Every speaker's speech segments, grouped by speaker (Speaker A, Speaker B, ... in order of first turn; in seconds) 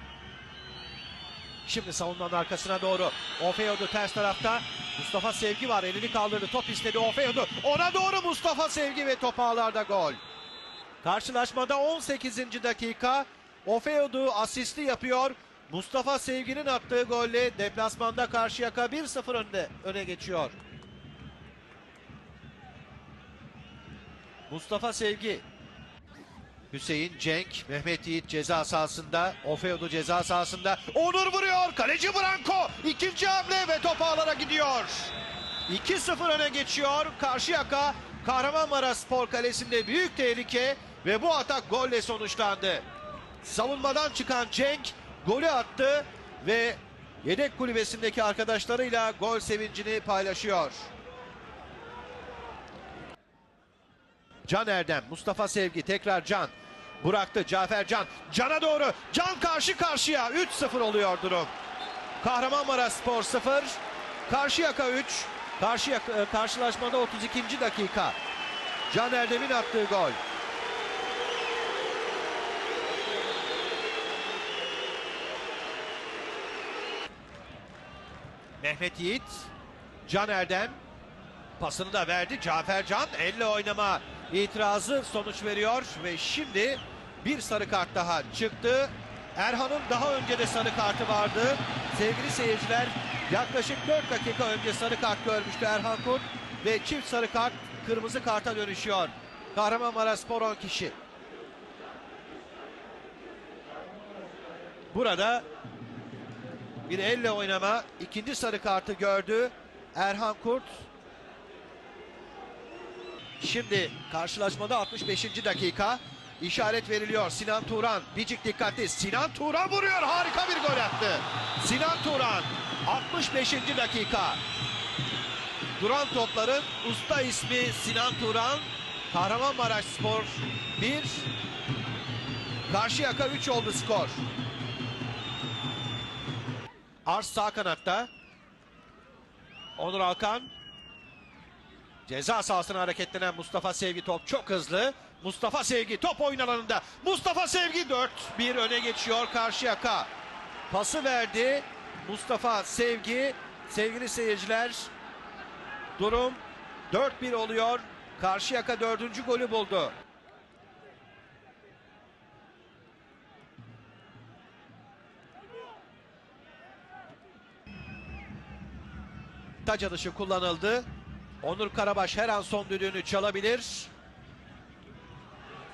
Speaker A: 1.6-10.2, 11.0-20.6, 24.5-25.4, 26.7-35.1, 35.7-42.9, 43.4-50.9, 54.5-61.5, 62.2-68.2, 68.9-70.2, 78.6-79.5, 80.0-80.8, 81.6-100.9, 104.9-105.4, 106.8-110.8, 113.4-124.4, 125.8-131.3, 132.7-134.2, 137.1-138.1, 139.8-140.5, 142.1-150.1, 150.7-154.9, 156.0-159.9, 169.6-170.9, 171.4-173.9